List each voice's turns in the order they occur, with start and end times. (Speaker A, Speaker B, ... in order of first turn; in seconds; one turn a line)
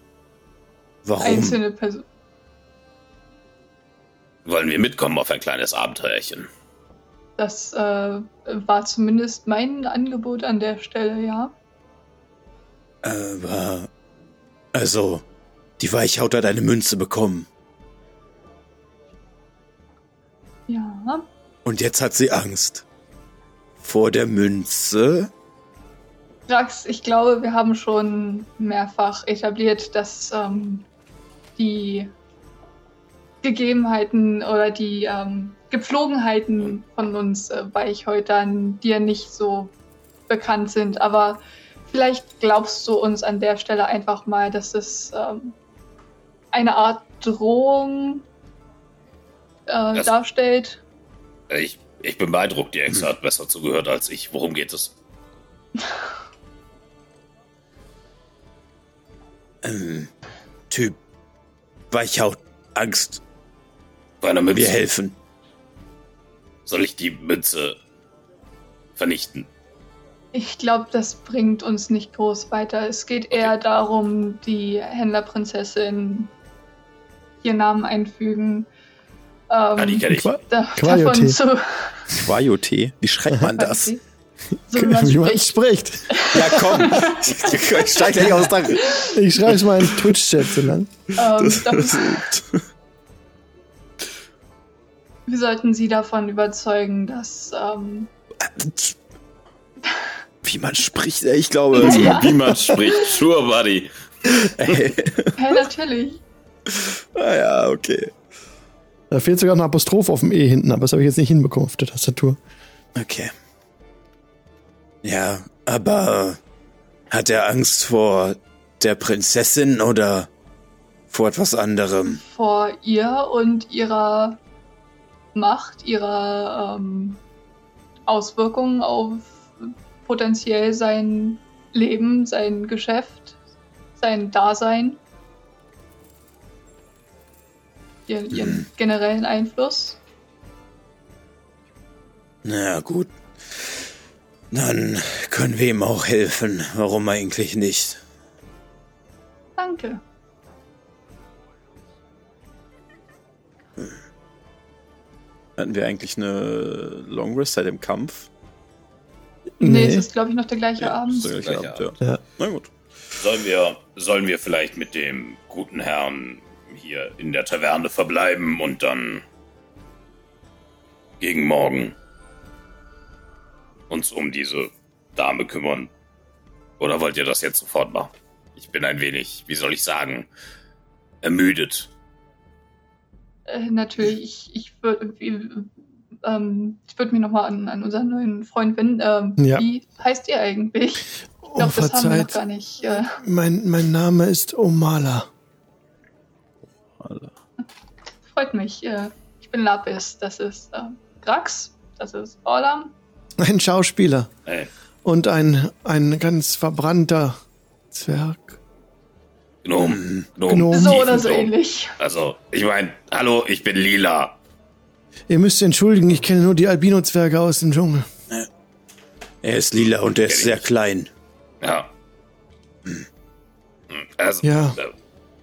Speaker A: 1.1-1.6
Speaker B: 1.2-2.1
Speaker C: 4.5-6.5
Speaker B: 7.4-11.6
Speaker A: 13.0-13.9
Speaker A: 14.7-15.2
Speaker A: 15.8-17.5
Speaker B: 20.7-21.3
Speaker A: 21.6-22.8
Speaker A: 23.8-25.3
Speaker B: 26.5-30.9
Speaker B: 31.6-32.1
Speaker B: 33.4-39.7
Speaker B: 40.3-45.5
Speaker B: 46.5-48.2
Speaker B: 49.7-50.8
Speaker C: 51.5-54.9
Speaker A: 59.6-60.1
Speaker A: 60.7-61.0
Speaker A: 61.9-63.2
Speaker C: 64.2-64.8
Speaker A: 64.5-65.2
Speaker C: 66.7-67.8
Speaker C: 69.0-69.5
Speaker B: 70.3-76.3
Speaker B: 77.4-78.7
Speaker B: 79.5-82.2
Speaker C: 79.8-80.4
Speaker D: 80.2-81.4
Speaker A: 82.1-83.9
Speaker B: 83.5-84.0
Speaker B: 84.7-85.6
Speaker D: 84.7-86.8
Speaker B: 86.1-89.2
Speaker A: 86.3-89.0
Speaker D: 88.9-90.9
Speaker A: 89.6-90.1
Speaker B: 91.2-92.2
Speaker A: 91.2-92.6
Speaker B: 95.3-98.1
Speaker A: 98.4-99.0
Speaker A: 100.4-102.4
Speaker C: 101.8-104.8
Speaker B: 101.8-103.1
Speaker A: 104.4-105.4
Speaker B: 105.4-106.2
Speaker A: 106.7-108.1
Speaker D: 109.1-112.4
Speaker A: 113.0-113.3
Speaker A: 115.0-116.4
Speaker A: 117.1-120.3
Speaker A: 121.1-122.2
Speaker B: 122.1-124.4
Speaker B: 125.3-127.2
Speaker B: 128.1-133.4
Speaker B: 134.0-135.0
Speaker B: 138.1-140.0
Speaker A: 138.3-138.6
Speaker A: 142.4-143.8
Speaker A: 144.5-148.0
Speaker B: 149.6-150.0
Speaker A: 155.6-158.3
Speaker D: 159.6-160.1
Speaker B: 159.6-161.4
Speaker A: 160.8-162.7
Speaker C: 161.4-161.9
Speaker C: 163.2-169.2
Speaker C: 171.2-171.9
Speaker C: 173.9-175.9
Speaker C: 176.8-180.3
Speaker C: 181.2-181.9
Speaker B: 183.5-185.7
Speaker B: 186.2-193.2
Speaker D: 189.4-189.7
Speaker D: 191.4-192.4
Speaker D: 193.2-195.3
Speaker A: 197.0-197.3
Speaker B: 198.3-202.9
Speaker D: 203.4-204.3
Speaker D: 205.1-207.4
Speaker D: 207.9-208.6
Speaker C: 209.7-214.4
Speaker A: 209.8-210.2
Speaker D: 210.5-211.0
Speaker B: 210.7-211.9
Speaker D: 215.3-218.1
Speaker A: 219.4-221.1
Speaker C: 219.8-220.7
Speaker C: 221.6-221.9
Speaker C: 223.9-224.9
Speaker D: 224.4-224.8